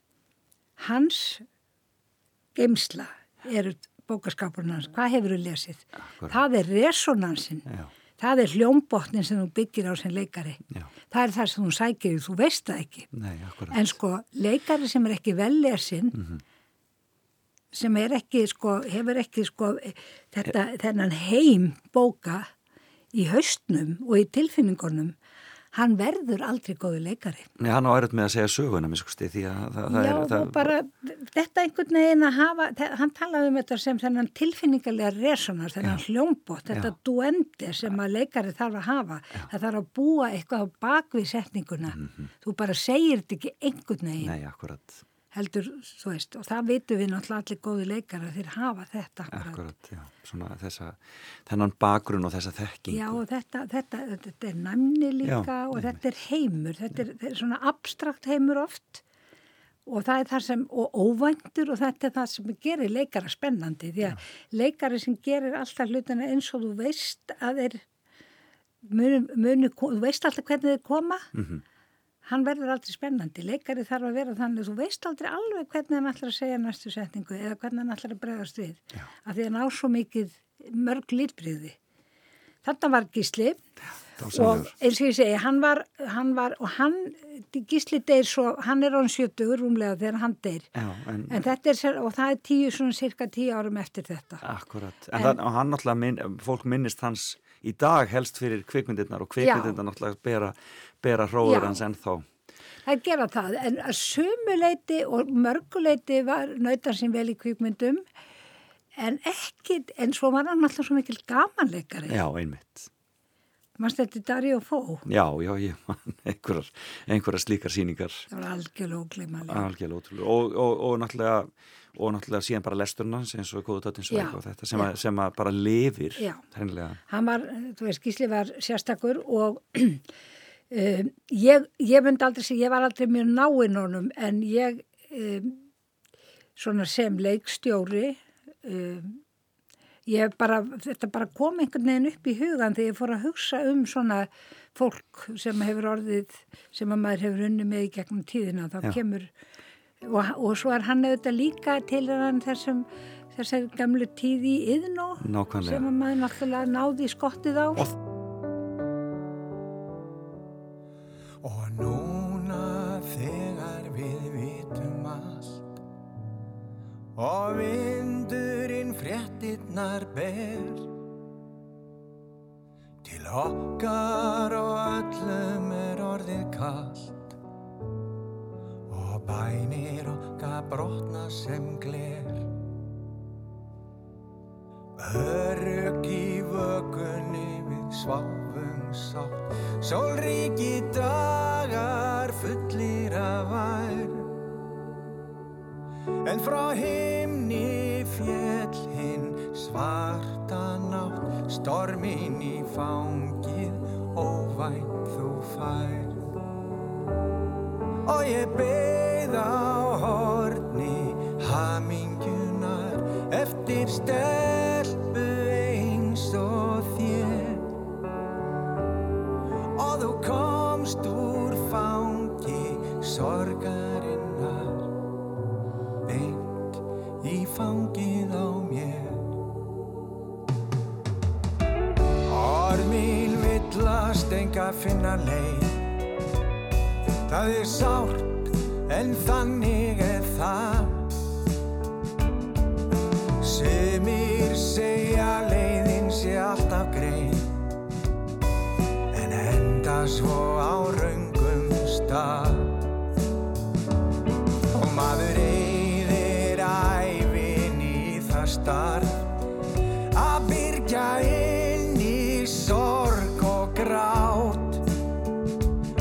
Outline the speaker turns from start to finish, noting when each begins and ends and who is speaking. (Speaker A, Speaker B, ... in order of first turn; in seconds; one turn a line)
Speaker A: 0.8-1.4
Speaker A: 2.6-7.7
Speaker B: 6.0-6.4
Speaker A: 8.2-13.1
Speaker B: 13.1-14.0
Speaker A: 13.7-16.2
Speaker B: 16.1-16.4
Speaker A: 17.7-22.5
Speaker A: 23.1-25.1
Speaker A: 25.7-27.5
Speaker B: 27.6-30.7
Speaker A: 29.9-44.4
Speaker B: 41.9-42.3
Speaker B: 44.2-45.0
Speaker A: 45.3-49.6
Speaker B: 49.3-53.2
Speaker A: 52.9-59.0
Speaker B: 55.2-56.0
Speaker A: 59.9-67.8
Speaker A: 68.8-71.3
Speaker B: 71.3-71.6
Speaker A: 72.3-81.8
Speaker A: 82.6-83.6
Speaker B: 84.2-84.7
Speaker A: 84.2-90.7
Speaker B: 90.8-91.4
Speaker A: 91.3-94.5
Speaker B: 94.4-102.3
Speaker A: 99.4-99.8
Speaker A: 101.4-101.8
Speaker A: 102.9-108.0
Speaker A: 109.0-112.2
Speaker B: 112.1-112.9
Speaker A: 113.8-115.1
Speaker B: 115.1-118.3
Speaker A: 118.3-119.7
Speaker B: 119.5-127.0
Speaker A: 124.1-124.9
Speaker A: 127.1-130.0
Speaker A: 130.7-135.6
Speaker A: 136.6-139.2
Speaker A: 140.1-149.3
Speaker A: 150.0-157.9
Speaker B: 155.2-155.9
Speaker C: 161.4-165.6
Speaker C: 167.2-170.9
Speaker C: 173.0-177.3
Speaker C: 178.9-182.5
Speaker C: 185.0-194.3
Speaker C: 196.2-206.2
Speaker C: 208.1-217.7
Speaker C: 219.8-224.9
Speaker C: 226.0-229.4
Speaker C: 232.3-235.8
Speaker C: 237.3-241.1
Speaker C: 243.4-247.5
Speaker C: 249.1-252.8
Speaker C: 254.7-259.2
Speaker C: 260.1-264.8